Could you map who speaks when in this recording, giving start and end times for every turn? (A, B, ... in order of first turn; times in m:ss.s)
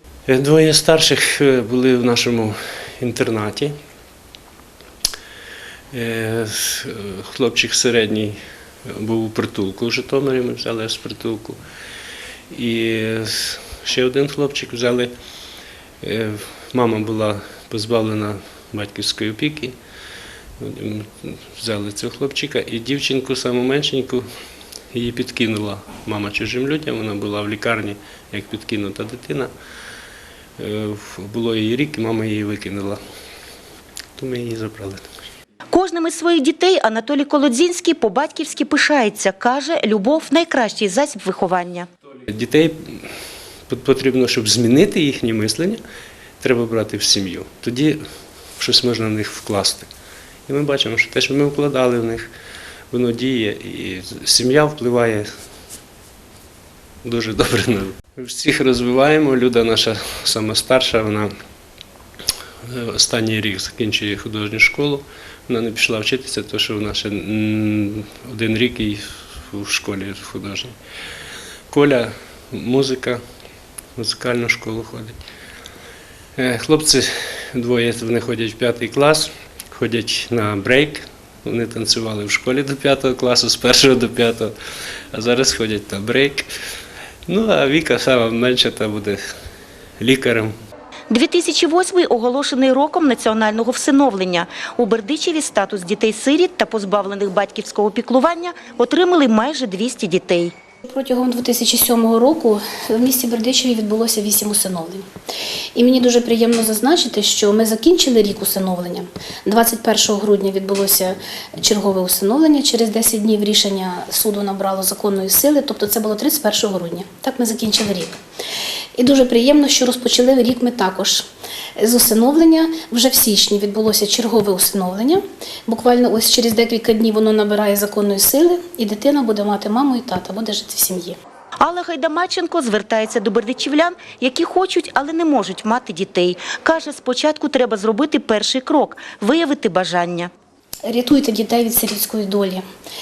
0:00.3-0:03.7 A
0:05.9-0:08.4 A
0:08.9-0:11.6 A
0:12.5-0:15.1 A
0:16.0-0:19.7 A
0:20.6-0:24.2 A
0:24.9-0:29.5 A
0:30.6-0:33.0 A
0:34.2-0:35.1 A
0:35.7-0:41.9 B
0:42.3-0:43.0 A
0:43.7-0:45.8 A
0:46.4-0:48.0 A
0:48.6-0:49.9 A
0:50.5-0:52.3 A
0:52.9-0:55.3 A
0:57.0-1:01.3 A
1:02.7-1:10.7 A
1:11.7-1:13.2 A
1:14.0-1:15.2 A
1:16.4-1:24.5 A
1:25.1-1:26.5 A
1:27.3-1:29.2 A
1:30.0-1:30.5 A
1:31.1-1:40.5 B
1:40.8-1:45.1 C
1:45.7-1:58.1 C
1:59.0-2:01.2 C
2:01.8-2:11.2 C
2:11.6-2:20.3 B
2:20.8-2:22.6 C